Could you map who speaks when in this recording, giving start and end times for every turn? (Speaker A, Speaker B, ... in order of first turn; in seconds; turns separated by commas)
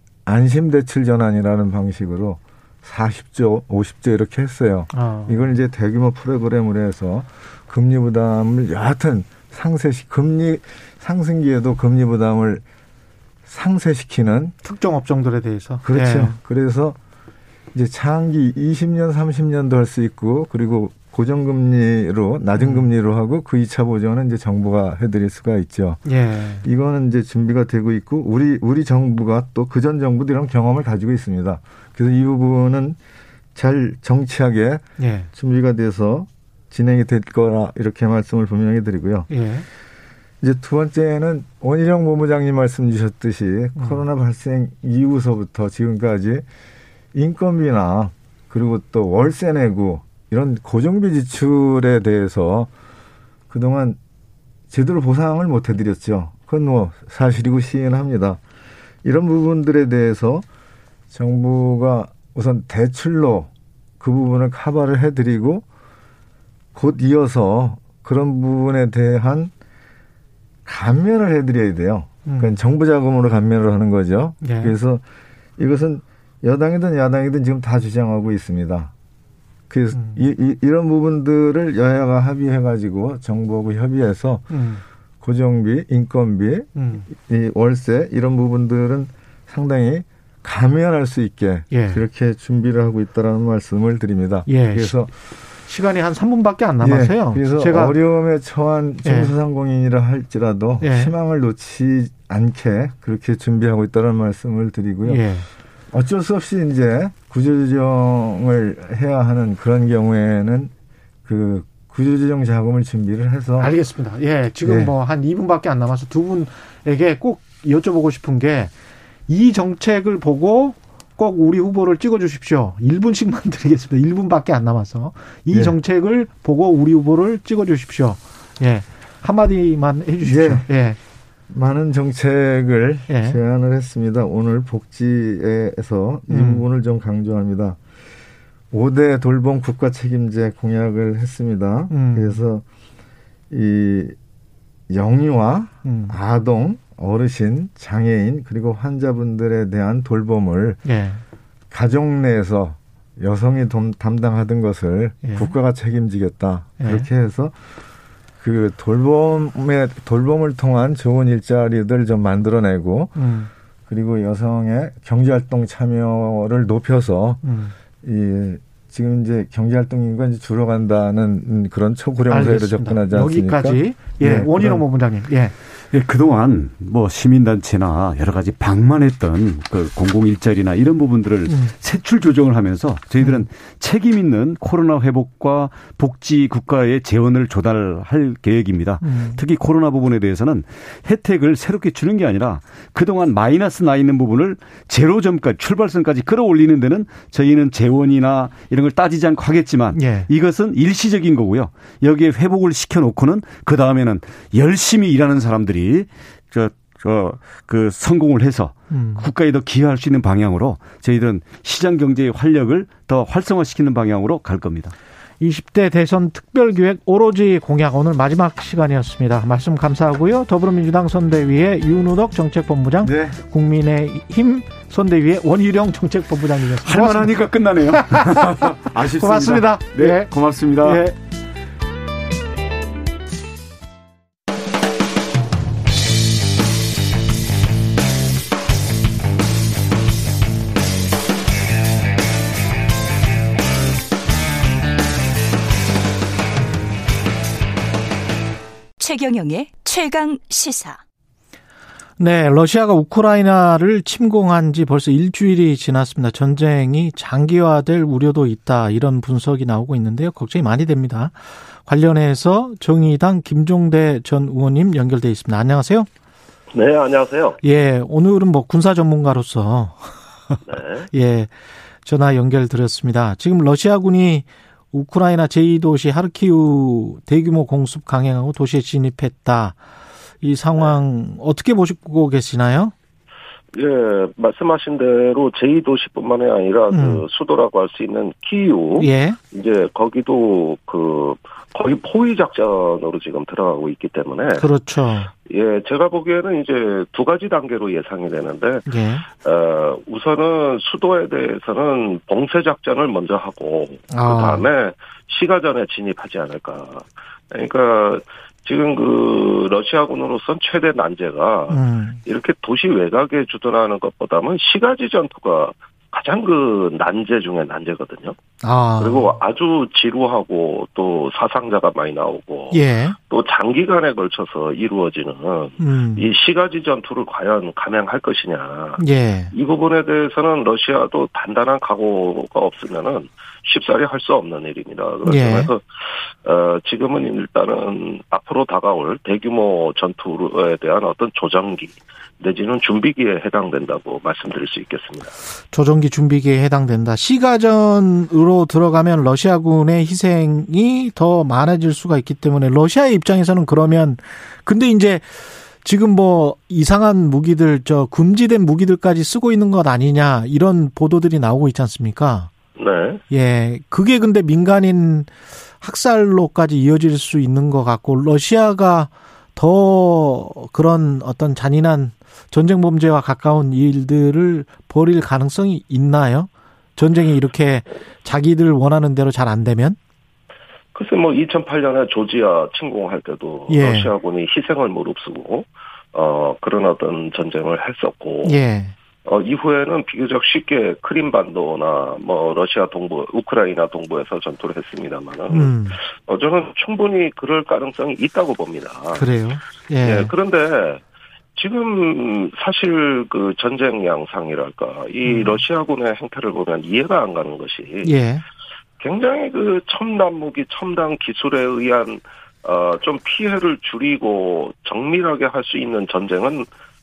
Speaker A: 0.2-12.6, Speaker B: 4.9-5.5, Speaker A: 13.5-14.5, Speaker B: 14.6-16.4, Speaker A: 15.8-17.0, Speaker A: 17.7-26.0, Speaker B: 22.6-22.9, Speaker B: 26.1-26.7, Speaker A: 26.6-33.0, Speaker A: 33.5-39.3, Speaker B: 35.0-35.3, Speaker B: 39.3-39.6, Speaker A: 40.4-46.5, Speaker B: 43.8-44.0, Speaker A: 47.1-52.7, Speaker A: 53.5-54.0, Speaker A: 54.7-58.4, Speaker A: 59.0-60.4, Speaker A: 61.1-63.5, Speaker A: 64.0-65.6, Speaker A: 66.7-69.5, Speaker A: 70.7-75.0, Speaker B: 72.2-72.6, Speaker B: 74.4-74.7, Speaker A: 75.6-78.9, Speaker A: 79.7-84.5, Speaker B: 79.9-80.2, Speaker B: 84.5-84.8, Speaker A: 85.2-95.1, Speaker B: 86.7-87.0, Speaker B: 91.7-92.0, Speaker B: 94.5-95.0, Speaker B: 95.7-97.9, Speaker A: 96.8-105.2, Speaker B: 99.0-99.3, Speaker B: 100.8-101.1, Speaker B: 105.0-105.5, Speaker A: 105.9-110.7, Speaker A: 111.2-113.7, Speaker B: 113.6-118.7, Speaker A: 114.6-114.9, Speaker B: 119.3-131.0, Speaker A: 125.5-125.8, Speaker A: 130.2-130.7, Speaker A: 131.5-137.8, Speaker B: 133.1-133.4, Speaker B: 136.3-136.6, Speaker A: 138.7-142.6, Speaker B: 141.9-142.4, Speaker A: 143.5-144.2, Speaker A: 144.9-150.8, Speaker B: 145.8-146.2, Speaker B: 150.8-151.2, Speaker A: 151.7-157.5, Speaker B: 155.2-155.5, Speaker B: 156.8-157.1, Speaker A: 158.4-163.2, Speaker B: 163.2-163.5, Speaker A: 163.9-167.4, Speaker B: 167.4-167.7, Speaker A: 168.0-174.8, Speaker B: 172.3-175.5, Speaker C: 175.9-214.9, Speaker B: 181.5-181.7, Speaker B: 183.2-183.4, Speaker B: 189.0-189.4, Speaker B: 199.9-200.3, Speaker B: 208.9-209.3, Speaker B: 215.4-231.2, Speaker A: 223.0-223.3, Speaker C: 226.8-231.0, Speaker D: 249.0-251.0, Speaker B: 252.2-266.1, Speaker E: 266.7-267.6, Speaker B: 267.6-270.6, Speaker E: 270.7-271.1, Speaker B: 271.1-271.5, Speaker B: 272.0-279.8, Speaker B: 280.4-282.9, Speaker E: 283.7-294.7, Speaker B: 286.9-287.2, Speaker B: 288.9-289.4, Speaker B: 294.6-295.3, Speaker E: 295.4-318.4, Speaker B: 298.9-299.2, Speaker B: 304.1-304.7, Speaker B: 311.7-312.2, Speaker B: 318.6-319.3, Speaker E: 319.0-335.8, Speaker B: 322.7-323.2, Speaker B: 325.8-326.3, Speaker B: 329.0-329.5, Speaker B: 335.2-335.7, Speaker E: 336.4-345.3, Speaker B: 345.7-362.5, Speaker E: 362.7-363.2, Speaker B: 363.3-380.0, Speaker E: 380.9-388.6, Speaker B: 383.7-384.1, Speaker B: 388.4-388.9, Speaker E: 389.2-399.3, Speaker B: 395.5-395.9, Speaker B: 399.1-400.3, Speaker E: 400.0-401.0, Speaker E: 401.6-408.1, Speaker B: 405.2-405.6, Speaker B: 408.0-408.4, Speaker E: 409.0-416.7